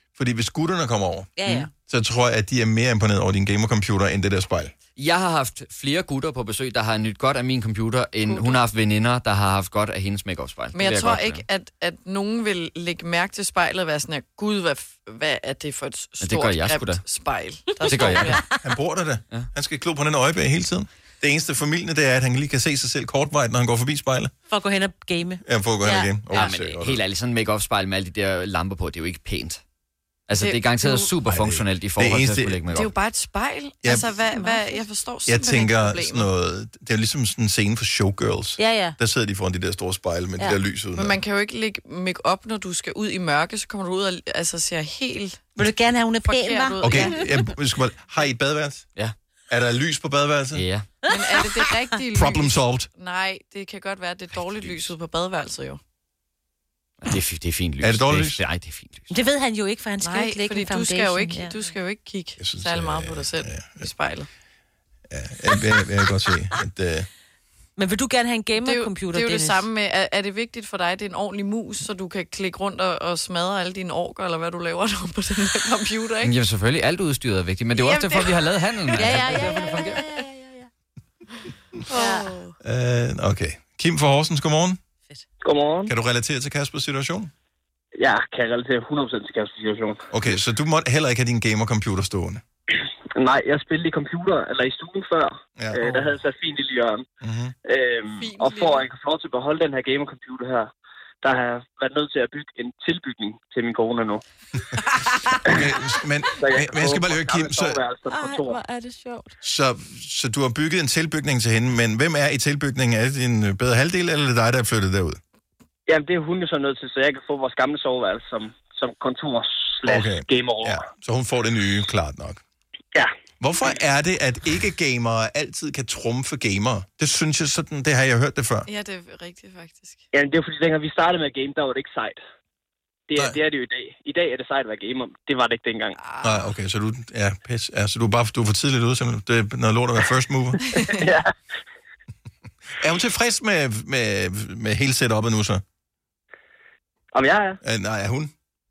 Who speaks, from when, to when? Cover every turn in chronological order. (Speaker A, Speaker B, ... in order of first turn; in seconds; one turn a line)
Speaker A: 0.1-4.7
Speaker B: 1.4-1.7
Speaker C: 5.0-11.4
Speaker D: 8.2-8.6
Speaker D: 10.7-18.4
Speaker C: 16.2-17.0
Speaker C: 17.8-18.4
Speaker A: 18.6-24.3
Speaker B: 24.5-26.1
Speaker A: 25.4-27.0
Speaker C: 26.3-29.6
Speaker C: 30.3-32.9
Speaker D: 30.4-31.1
Speaker A: 31.3-32.6
Speaker D: 32.7-36.3
Speaker B: 34.4-34.8
Speaker A: 35.3-41.2
Speaker B: 38.6-39.0
Speaker D: 41.0-45.4
Speaker B: 45.6-47.3
Speaker D: 46.2-47.2
Speaker A: 46.8-48.9
Speaker A: 49.5-50.7
Speaker C: 50.5-50.9
Speaker D: 51.1-55.8
Speaker A: 52.1-52.9
Speaker C: 57.0-59.1
Speaker A: 57.8-58.4
Speaker B: 59.1-61.6
Speaker D: 60.0-64.3
Speaker A: 62.4-63.9
Speaker A: 65.1-67.1
Speaker B: 67.8-69.7
Speaker D: 68.6-76.3
Speaker C: 76.2-80.1
Speaker D: 77.7-79.9
Speaker B: 79.0-80.7
Speaker D: 81.9-82.5
Speaker B: 81.9-82.3
Speaker A: 82.6-84.8
Speaker E: 85.4-85.9
Speaker A: 85.9-87.3
Speaker E: 88.0-90.0
Speaker A: 90.1-92.4
Speaker E: 93.2-97.1
Speaker A: 95.6-96.2
Speaker A: 97.2-97.5
Speaker E: 97.6-100.7
Speaker D: 98.2-98.9
Speaker E: 101.2-104.2
Speaker E: 105.5-105.8
Speaker A: 105.5-107.8
Speaker E: 106.3-108.6
Speaker B: 108.1-109.3
Speaker A: 109.4-115.2
Speaker E: 115.9-120.8
Speaker A: 119.9-122.4
Speaker A: 123.4-128.7
Speaker D: 128.7-130.0
Speaker E: 130.1-132.2
Speaker E: 133.1-136.0
Speaker D: 136.0-136.5
Speaker A: 136.2-140.6
Speaker D: 140.7-141.0
Speaker E: 140.8-141.3
Speaker A: 142.8-145.6
Speaker E: 147.1-147.6
Speaker A: 147.6-148.3